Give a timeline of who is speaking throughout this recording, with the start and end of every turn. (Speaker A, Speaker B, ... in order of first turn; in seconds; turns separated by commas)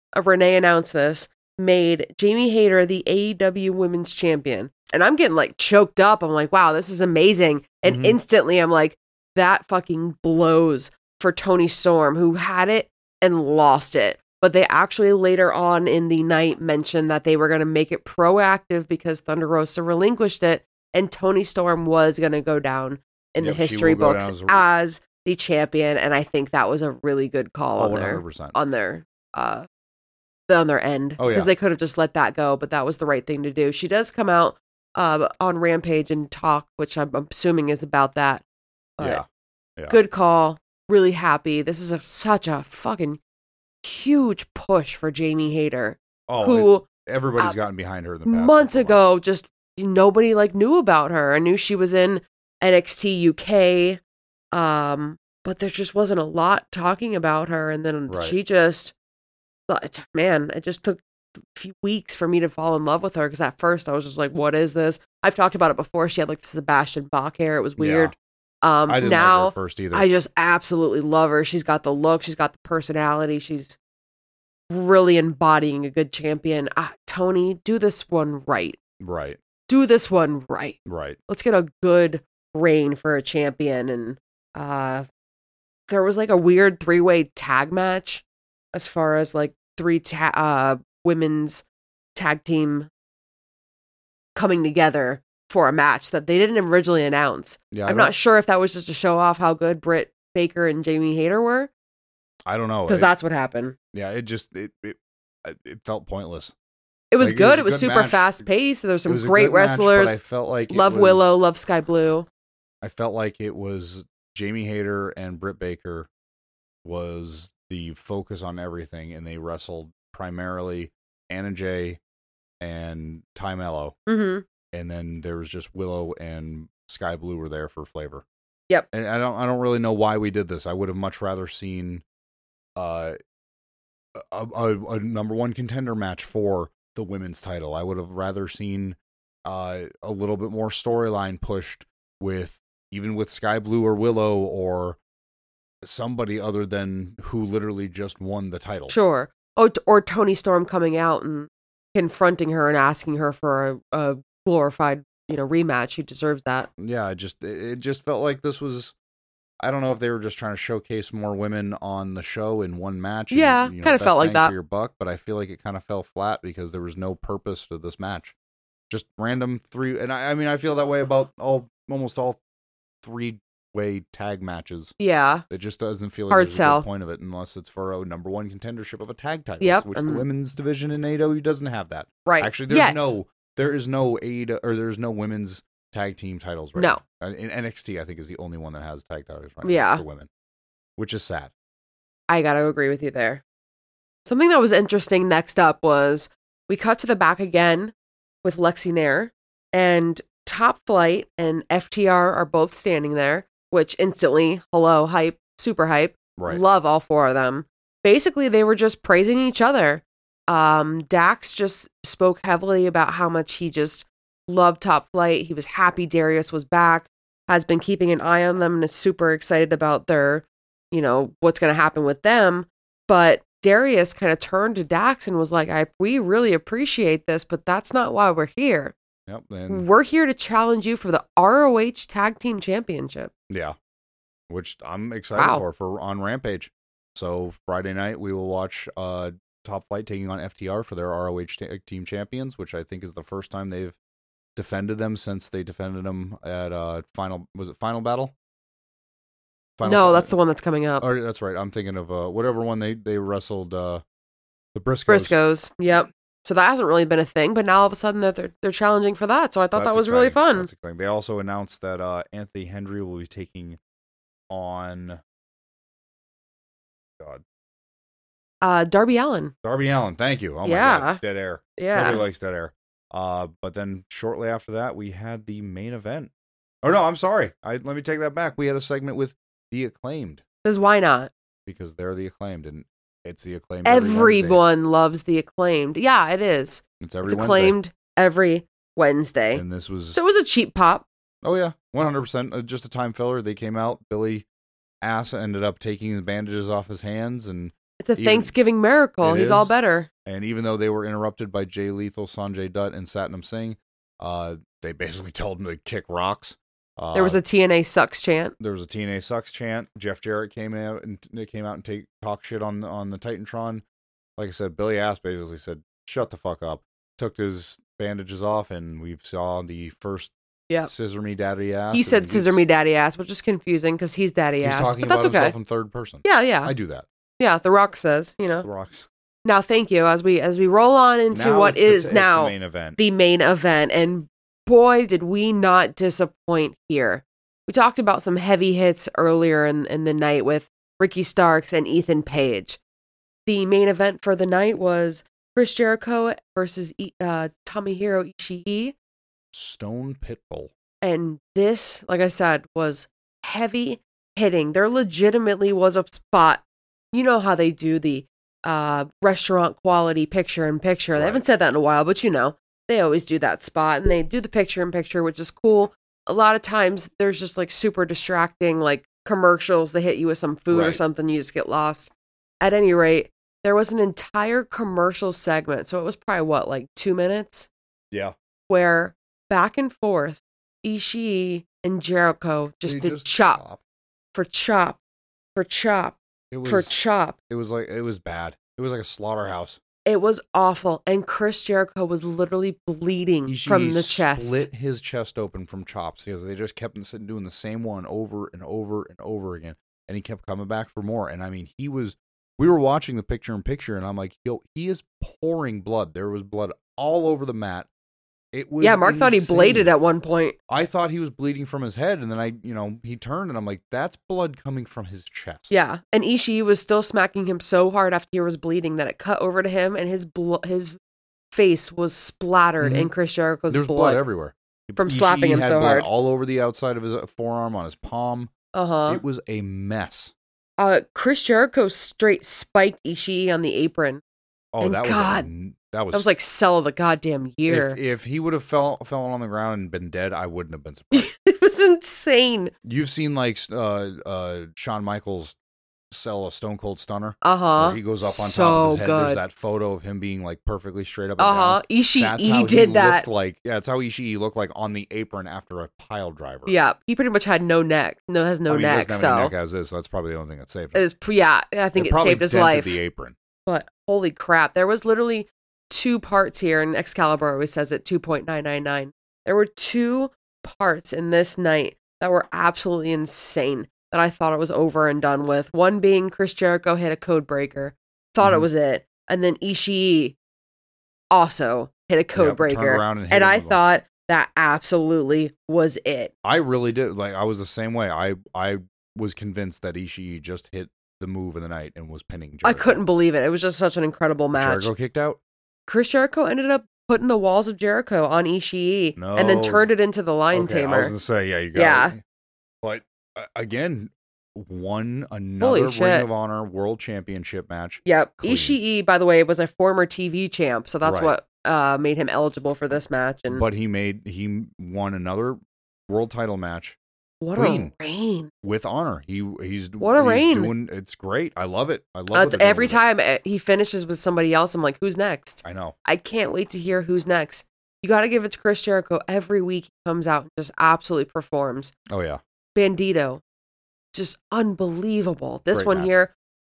Speaker A: 0.1-29.7, Speaker B: 7.8-8.2, Speaker B: 23.4-24.6, Speaker B: 27.8-28.6, Speaker A: 30.5-38.4, Speaker B: 31.2-31.5, Speaker B: 39.0-39.2, Speaker A: 39.9-43.2, Speaker A: 43.8-46.9, Speaker B: 46.3-49.0, Speaker A: 48.3-54.0, Speaker A: 54.5-58.9, Speaker B: 58.1-58.4, Speaker A: 59.7-68.1, Speaker B: 67.8-68.1, Speaker A: 68.6-73.8, Speaker B: 68.9-70.1, Speaker A: 74.7-78.8, Speaker B: 79.0-79.4, Speaker A: 79.7-85.1, Speaker B: 80.9-81.2, Speaker A: 85.9-91.6, Speaker A: 92.2-92.9, Speaker A: 94.3-101.7, Speaker B: 97.7-98.1, Speaker B: 102.5-103.1, Speaker A: 102.9-103.8, Speaker B: 103.9-106.5, Speaker A: 107.1-110.2, Speaker B: 107.2-108.3, Speaker B: 109.1-111.3, Speaker A: 110.7-112.3, Speaker B: 112.8-116.1, Speaker B: 116.8-122.0, Speaker B: 122.6-124.0, Speaker A: 124.1-124.5, Speaker B: 124.7-128.2, Speaker B: 128.9-132.0, Speaker B: 132.8-133.2, Speaker B: 134.1-145.0, Speaker B: 145.8-148.9, Speaker A: 148.9-156.7, Speaker B: 156.8-158.9, Speaker B: 159.6-168.3, Speaker A: 163.3-164.5, Speaker B: 168.9-172.4, Speaker B: 173.0-174.9, Speaker A: 175.0-175.4, Speaker B: 175.5-190.3, Speaker A: 176.3-176.8, Speaker A: 179.6-180.2, Speaker A: 182.2-183.0, Speaker A: 186.8-187.0, Speaker A: 189.6-190.0, Speaker B: 191.0-191.5, Speaker A: 192.3-193.4, Speaker A: 194.3-228.9, Speaker B: 206.4-206.6, Speaker B: 229.3-229.9, Speaker A: 229.7-233.3, Speaker B: 233.5-233.8, Speaker B: 234.5-244.0, Speaker A: 235.4-235.6, Speaker B: 244.6-248.3, Speaker B: 249.8-250.3, Speaker A: 249.8-251.1, Speaker B: 251.0-254.0, Speaker B: 254.7-255.4, Speaker A: 255.1-260.7, Speaker B: 259.7-263.8, Speaker B: 264.5-265.2, Speaker A: 268.6-269.5, Speaker B: 269.6-276.3, Speaker A: 270.6-271.2, Speaker A: 271.8-272.2, Speaker B: 276.8-280.4, Speaker A: 280.6-281.3, Speaker B: 281.7-284.6, Speaker A: 283.8-291.1, Speaker B: 287.0-287.8, Speaker B: 289.5-290.2, Speaker B: 291.4-294.4, Speaker B: 295.0-298.5, Speaker A: 298.0-300.1, Speaker B: 299.2-299.7, Speaker B: 300.3-307.4, Speaker A: 307.1-308.6, Speaker B: 308.6-313.8, Speaker B: 314.4-320.3, Speaker B: 320.9-322.6, Speaker A: 321.9-325.6, Speaker B: 324.6-327.1, Speaker A: 326.2-326.7, Speaker A: 327.4-328.7, Speaker B: 328.6-329.1, Speaker A: 329.4-342.8, Speaker B: 331.3-333.0, Speaker A: 343.5-348.9, Speaker B: 349.5-350.7, Speaker A: 351.0-377.7, Speaker B: 361.2-361.4, Speaker B: 370.7-371.0, Speaker A: 378.7-383.6, Speaker B: 382.9-383.8, Speaker A: 384.3-385.0, Speaker A: 385.6-387.4, Speaker B: 386.5-386.9, Speaker B: 387.5-389.8, Speaker A: 390.1-394.7, Speaker B: 393.5-407.9, Speaker B: 408.5-409.9, Speaker A: 408.8-410.6, Speaker B: 410.7-415.7, Speaker A: 415.7-421.0, Speaker A: 421.5-424.2, Speaker B: 422.8-423.1, Speaker B: 423.7-428.5, Speaker A: 425.0-426.1, Speaker A: 428.7-429.2, Speaker B: 429.1-430.3, Speaker A: 430.8-434.2, Speaker B: 434.7-436.3, Speaker A: 434.8-435.5, Speaker A: 436.1-438.0, Speaker B: 437.7-441.3, Speaker A: 441.1-442.7, Speaker B: 442.8-445.6, Speaker B: 446.1-456.7, Speaker A: 447.4-449.4, Speaker A: 451.4-453.3, Speaker A: 456.7-459.5, Speaker B: 458.7-461.0, Speaker A: 460.9-463.0, Speaker B: 462.0-463.4, Speaker A: 463.7-480.4, Speaker B: 478.4-478.7, Speaker A: 481.3-486.3, Speaker B: 482.4-483.8, Speaker B: 486.4-493.0, Speaker A: 492.6-494.9, Speaker B: 494.5-495.4, Speaker A: 495.9-501.1, Speaker B: 499.2-499.9, Speaker B: 500.5-502.2, Speaker A: 501.8-502.1, Speaker B: 502.8-508.8, Speaker A: 505.6-506.3, Speaker A: 508.1-513.6, Speaker B: 511.0-511.3, Speaker B: 513.5-515.6, Speaker B: 516.1-517.0, Speaker A: 517.4-518.5, Speaker B: 517.6-517.9, Speaker B: 518.6-523.0, Speaker A: 520.0-520.7, Speaker A: 522.3-531.9, Speaker B: 525.6-526.0, Speaker B: 532.1-532.4, Speaker A: 532.8-533.4, Speaker A: 534.1-536.3, Speaker B: 535.7-536.1